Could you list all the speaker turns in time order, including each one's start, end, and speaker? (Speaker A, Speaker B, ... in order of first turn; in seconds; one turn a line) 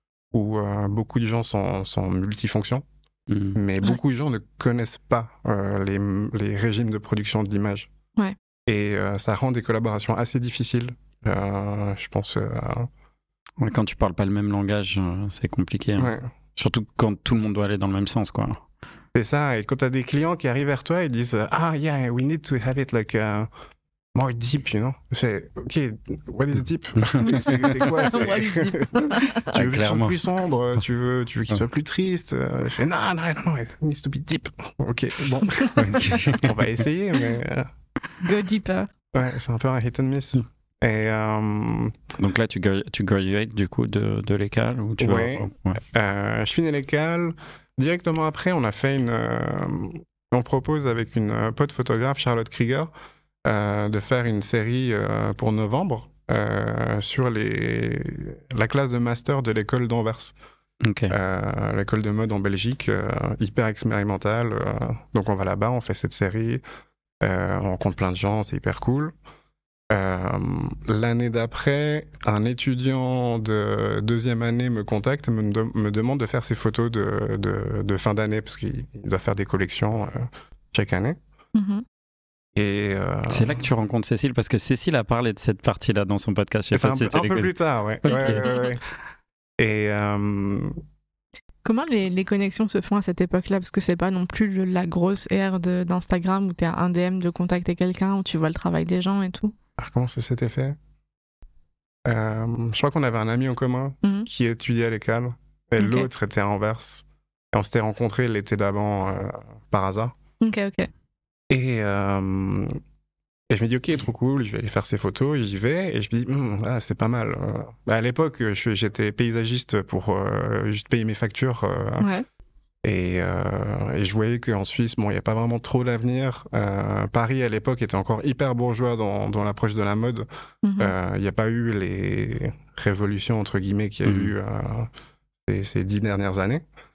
Speaker A: 0.3-2.9
Speaker B: 3.3-3.6
Speaker A: 3.5-7.9
Speaker A: 8.7-12.9
Speaker B: 13.6-18.6
Speaker A: 16.0-16.3
Speaker A: 19.1-23.5
Speaker A: 24.1-28.9
Speaker B: 27.0-27.6
Speaker C: 27.2-29.5
Speaker A: 29.5-37.7
Speaker B: 29.5-30.2
Speaker B: 35.7-36.8
Speaker C: 38.2-38.9
Speaker A: 39.1-42.0
Speaker B: 42.2-45.8
Speaker A: 45.0-52.9
Speaker A: 53.4-60.3
Speaker B: 60.8-61.1
Speaker A: 61.1-66.6
Speaker A: 67.2-69.1
Speaker A: 69.9-81.2
Speaker C: 81.5-81.8
Speaker A: 82.5-83.6
Speaker B: 83.3-87.5
Speaker A: 86.7-88.8
Speaker B: 88.1-88.4
Speaker C: 88.1-88.7
Speaker A: 89.6-90.8
Speaker C: 91.6-99.5
Speaker A: 99.8-100.8
Speaker A: 102.0-110.1
Speaker C: 105.8-106.1
Speaker C: 110.4-110.9
Speaker A: 111.5-112.8
Speaker A: 113.5-122.1
Speaker C: 122.0-122.2
Speaker A: 122.8-130.3
Speaker C: 130.6-130.9
Speaker A: 130.8-134.9
Speaker B: 134.0-134.3
Speaker A: 135.4-136.6